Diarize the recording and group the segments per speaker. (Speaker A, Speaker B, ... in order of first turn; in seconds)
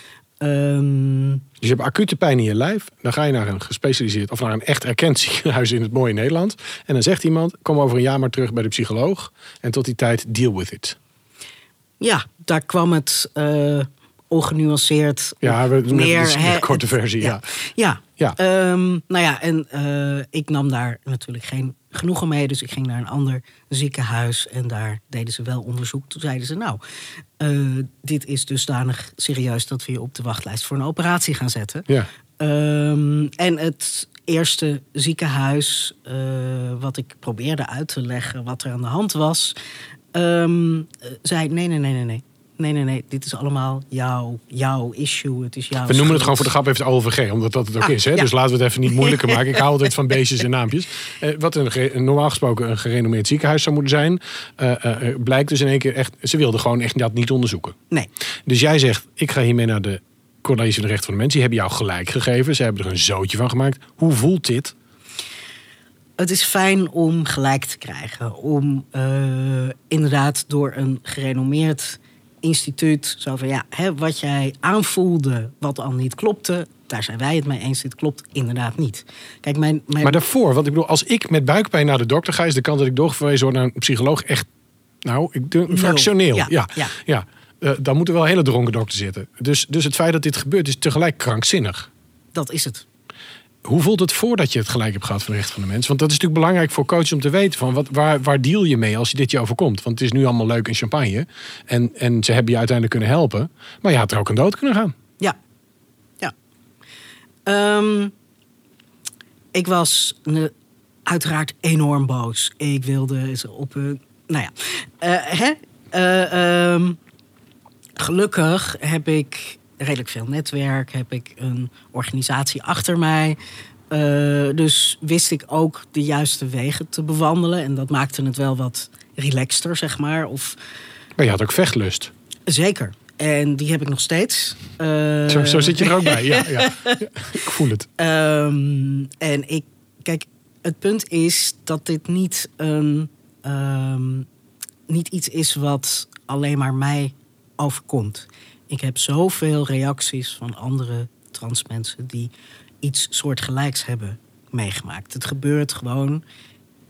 Speaker A: 0.4-1.4, 12.0-26.8, 27.4-31.9, 32.4-39.5, 40.1-46.5, 47.8-48.3, 48.9-49.6, 66.2-80.2, 85.7-86.9, 92.3-92.8, 107.5-108.1, 109.5-110.5, 111.0-117.0, 118.0-123.4, 123.9-130.6, 132.5-137.0, 138.0-144.3, 144.9-152.3, 152.8-156.2
Speaker B: 1.6-10.9, 15.4-17.4, 45.9-57.7, 58.5-64.7, 80.0-84.5, 85.0-91.9, 93.6-104.9, 131.2-132.1, 135.3-137.9